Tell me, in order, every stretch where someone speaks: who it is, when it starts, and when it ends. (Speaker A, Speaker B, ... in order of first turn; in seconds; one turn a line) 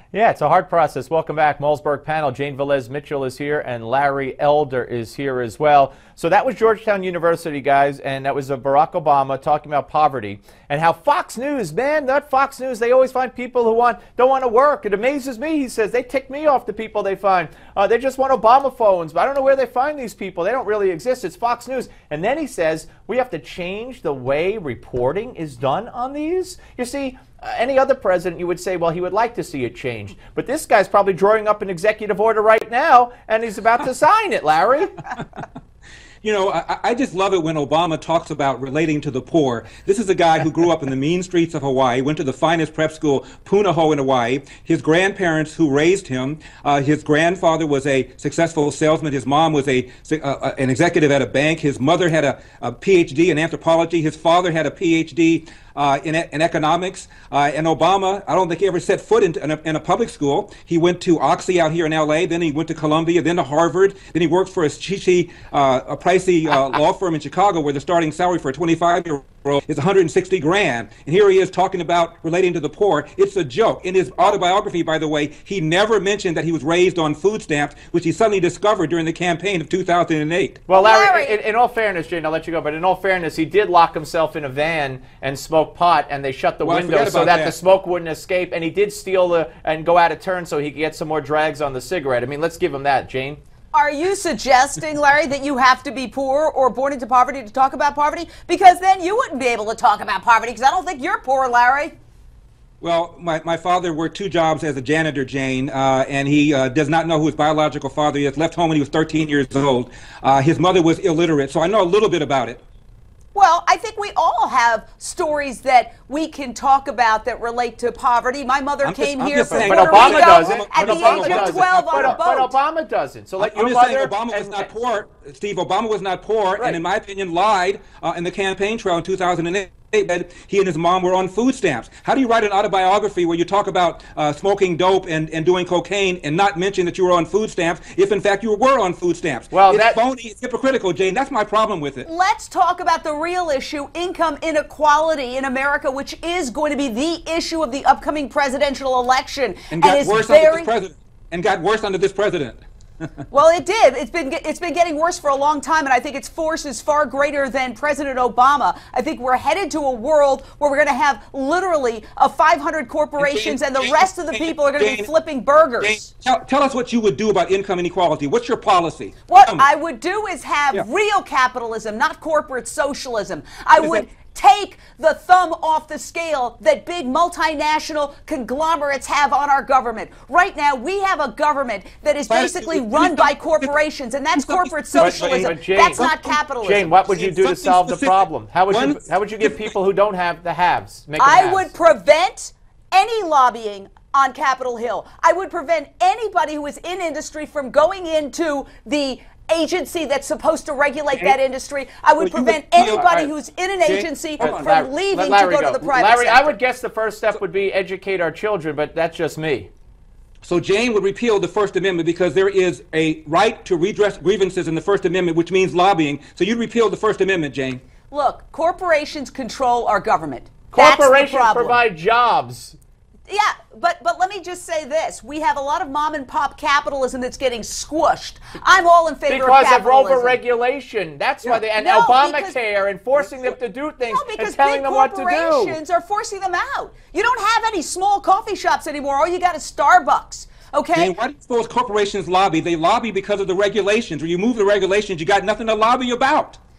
Speaker A: 0.1-35.0
Speaker B: 36.2-80.6
Speaker A: 80.7-93.4
Speaker C: 80.7-81.4
Speaker B: 86.6-87.5
Speaker C: 93.7-102.0
Speaker B: 102.8-112.6
Speaker C: 113.3-122.6
Speaker B: 118.8-122.2
Speaker A: 119.5-124.7
Speaker B: 123.4-142.1
Speaker A: 139.5-140.0
Speaker C: 142.1-150.7
Speaker B: 149.7-153.1
Speaker C: 153.3-166.1
Speaker B: 163.2-165.1
Speaker B: 165.8-169.7
Speaker C: 169.3-187.0
Speaker B: 173.8-174.1
Speaker B: 182.3-183.7
Speaker B: 184.4-186.4
Speaker A: 185.0-186.1
Speaker A: 186.6-191.7
Speaker B: 187.1-189.7
Speaker C: 191.2-206.6
Speaker B: 202.2-203.0
Speaker A: 202.8-203.3
Speaker B: 203.8-204.8
Speaker A: 204.4-209.7
Speaker B: 210.4-217.8
Speaker C: 218.1-221.8
Speaker A: 220.7-222.8
Speaker C: 223.3-230.4
Speaker A: 229.3-235.8
Speaker C: 231.8-232.6
Speaker C: 234.1-241.1
Speaker B: 240.9-246.6